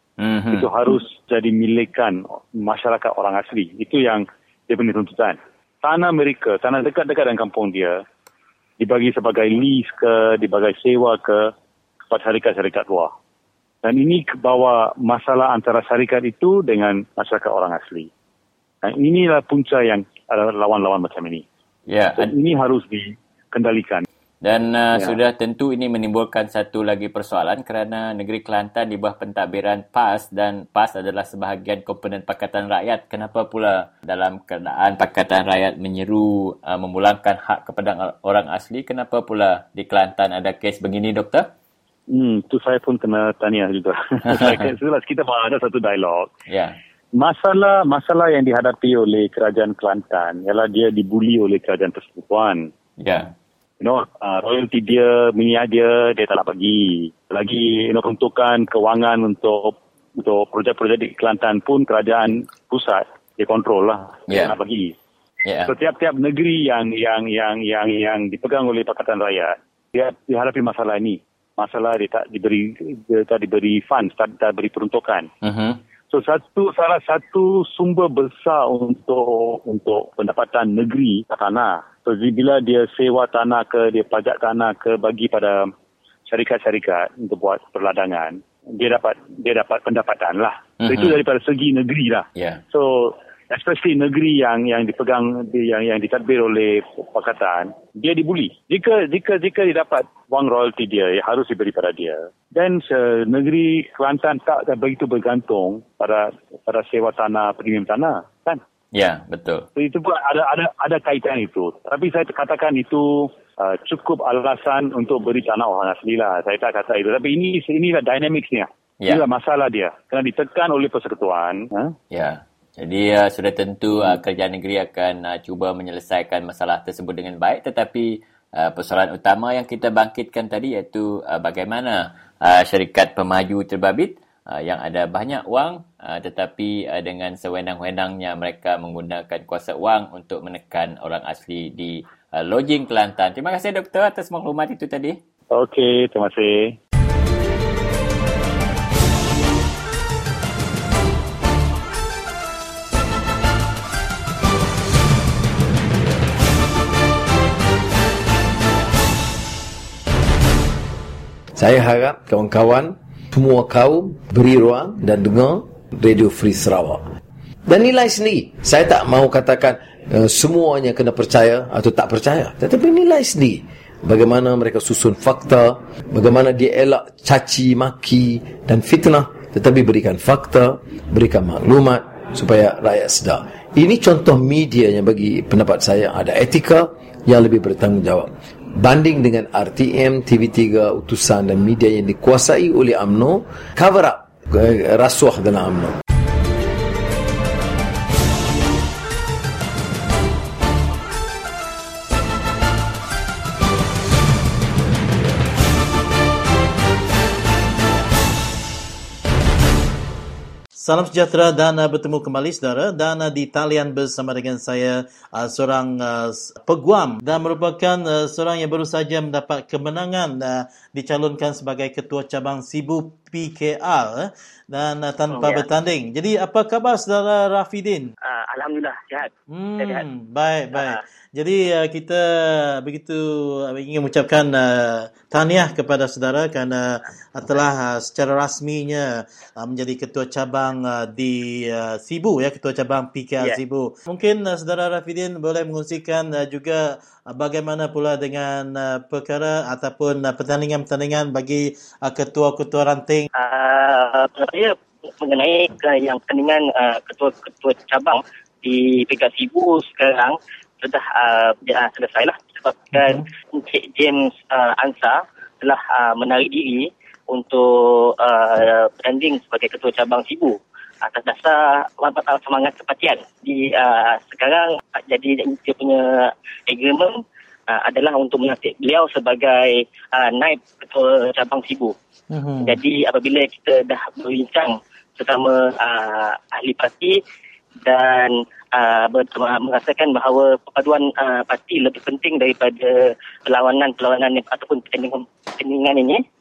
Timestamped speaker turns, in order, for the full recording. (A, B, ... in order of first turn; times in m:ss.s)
0:00.2-0:00.7 A
0:00.5-0:08.0 B
0:08.8-0:11.5 B
0:12.1-0:13.1 B
0:13.8-0:18.1 B
0:18.8-0:21.4 B
0:21.9-0:22.3 A
0:22.1-0:24.0 B
0:24.4-0:41.5 A
0:42.1-0:46.3 B
0:44.3-0:44.7 A
0:46.5-0:46.8 A
0:47.2-0:52.7 B
0:53.0-0:53.3 A
0:53.8-1:04.9 B
1:04.3-1:04.6 A
1:05.4-1:05.7 A
1:05.7-1:15.3 B
1:15.4-1:15.8 A
1:16.1-1:25.7 B
1:26.3-1:48.6 B
1:30.8-1:31.2 A
1:32.4-1:32.6 A
1:48.9-1:49.6 A
1:49.8-2:01.9 B
2:02.1-2:25.2 A
2:25.5-2:26.7 B
2:41.6-2:47.0 C
2:47.7-3:15.9 C
3:30.8-3:48.1 D
3:45.3-3:45.6 E
3:48.3-3:50.0 E
3:49.5-3:59.0 D
3:59.6-4:13.3 D
4:13.3-4:37.2 E
4:23.0-4:23.2 D
4:37.7-4:41.9 E
4:42.3-4:42.7 D
4:42.6-4:47.2 E
4:47.8-4:56.2 E